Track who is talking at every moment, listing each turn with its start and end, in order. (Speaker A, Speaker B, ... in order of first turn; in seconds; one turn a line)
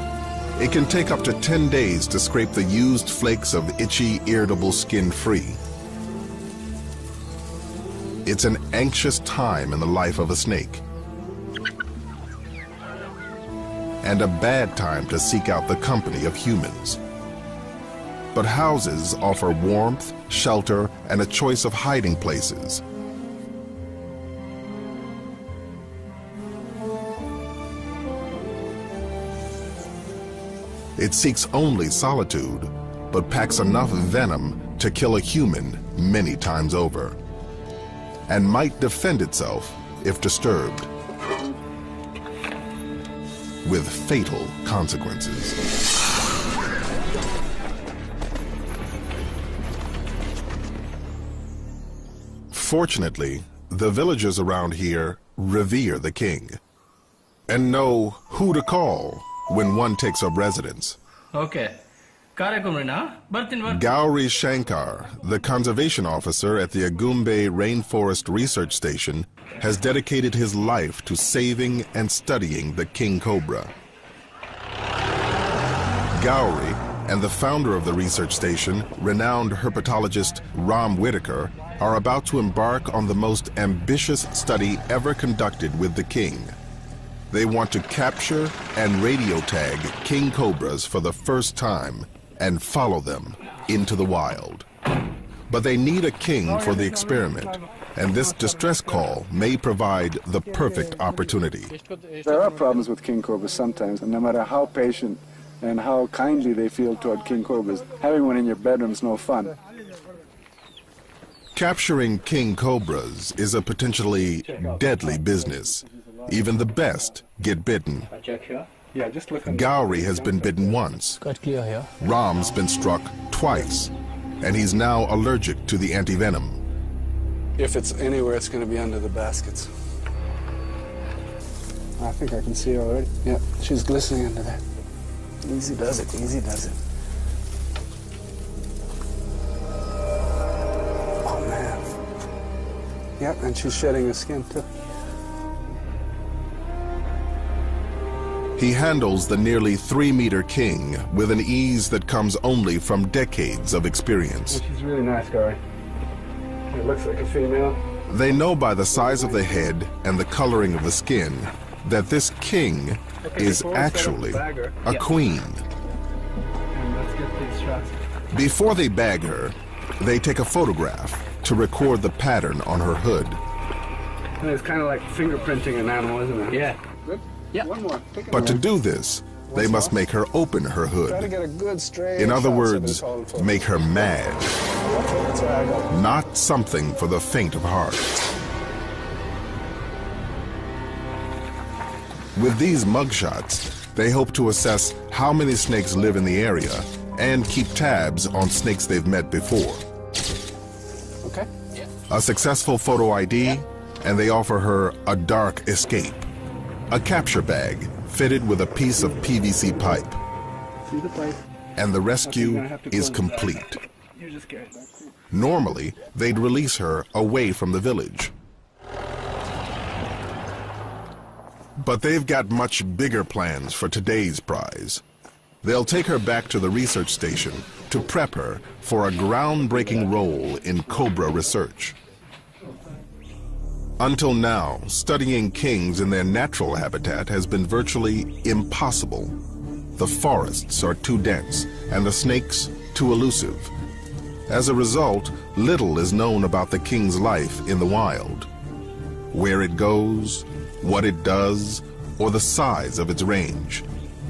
Speaker A: 0.6-5.6
Speaker A: 8.2-10.8
Speaker A: 14.0-17.0
Speaker A: 18.3-22.8
Speaker A: 31.0-37.2
Speaker A: 38.3-40.9
Speaker A: 43.6-45.6
Speaker A: 52.5-56.6
Speaker A: 57.5-61.0
Speaker B: 61.3-61.8
Speaker B: 62.4-63.8
Speaker A: 63.6-73.7
Speaker A: 76.1-86.5
Speaker A: 87.3-94.7
Speaker A: 95.5-101.8
Speaker B: 101.9-102.2
Speaker C: 102.2-109.5
Speaker A: 111.5-118.1
Speaker C: 114.5-116.8
Speaker B: 118.1-118.7
Speaker C: 118.9-120.8
Speaker A: 119.4-121.2
Speaker B: 121.2-121.9
Speaker A: 122.0-126.6
Speaker C: 127.6-129.7
Speaker C: 132.0-134.6
Speaker C: 135.4-136.8
Speaker C: 141.2-141.9
Speaker C: 143.2-144.7
Speaker A: 148.6-154.6
Speaker C: 154.5-155.6
Speaker C: 156.7-157.8
Speaker A: 158.1-165.6
Speaker C: 159.0-159.5
Speaker C: 163.2-164.8
Speaker C: 166.7-167.9
Speaker A: 168.3-173.4
Speaker C: 174.4-178.6
Speaker B: 176.5-176.8
Speaker A: 178.3-181.3
Speaker C: 179.5-179.9
Speaker C: 181.1-184.2
Speaker A: 182.2-184.6
Speaker C: 184.8-185.9
Speaker A: 185.9-188.2
Speaker A: 192.3-199.8
Speaker C: 201.2-201.5
Speaker A: 202.1-206.3
Speaker A: 206.9-210.2
Speaker C: 209.1-209.4
Speaker C: 210.9-211.4
Speaker A: 211.8-213.8
Speaker C: 212.2-215.1
Speaker A: 215.3-218.3
Speaker A: 221.8-225.0
Speaker A: 225.6-231.9
Speaker A: 234.0-239.3
Speaker A: 240.0-243.7
Speaker A: 244.5-248.5
Speaker A: 249.3-253.8